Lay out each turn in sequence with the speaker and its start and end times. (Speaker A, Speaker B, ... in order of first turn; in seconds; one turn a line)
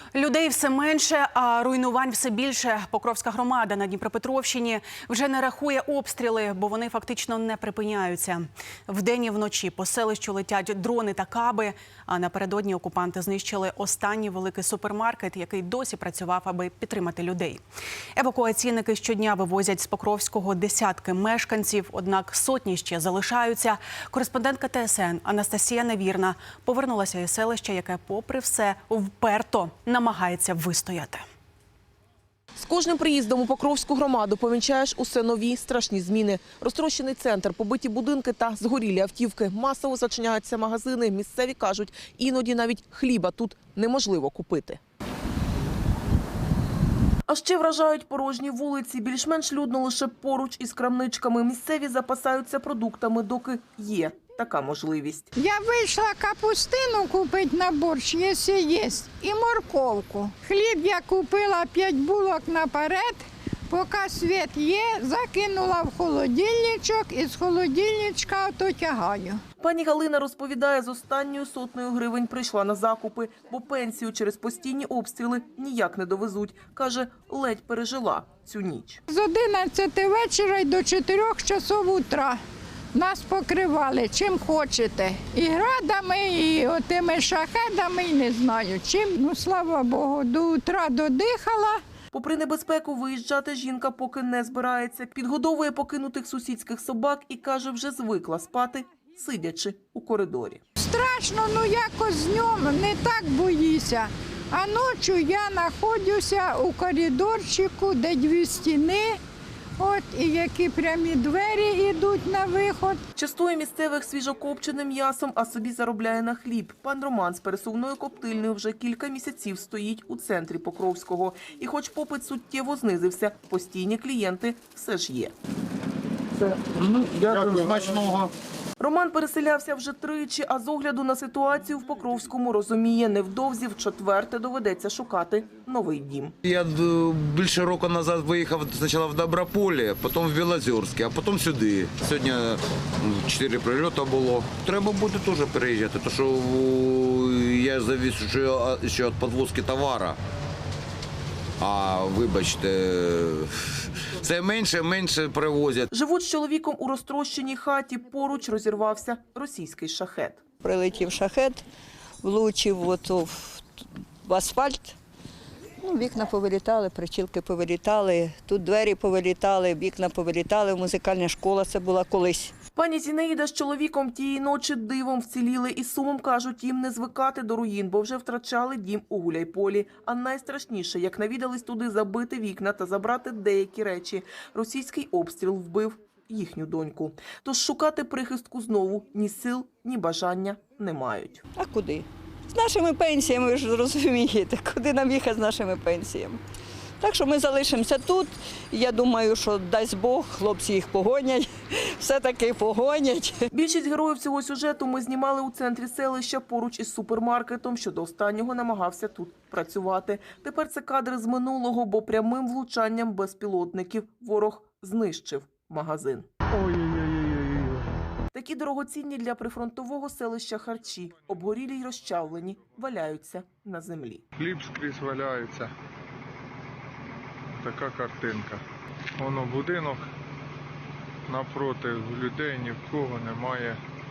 Speaker A: 0.1-17.6
Speaker A: 18.2-31.2
Speaker B: 32.6-44.8
Speaker B: 47.3-55.3
Speaker C: 55.4-69.4
Speaker B: 69.6-79.0
Speaker C: 79.1-82.4
Speaker C: 82.9-91.8
Speaker B: 92.1-100.6
Speaker C: 100.8-109.2
Speaker C: 109.8-113.0
Speaker B: 113.2-125.3
Speaker D: 126.5-128.3
Speaker B: 128.8-136.3
Speaker D: 136.4-150.2
Speaker D: 151.6-155.9
Speaker B: 155.9-160.4
Speaker E: 160.6-161.6
Speaker E: 162.2-165.0
Speaker E: 165.8-172.6
Speaker B: 172.8-191.4
Speaker E: 191.6-196.4
Speaker E: 197.0-203.4
Speaker B: 203.5-216.3
Speaker B: 218.3-224.2
Speaker F: 224.4-225.7
Speaker F: 227.6-228.6
Speaker F: 229.2-230.1
Speaker F: 231.3-233.8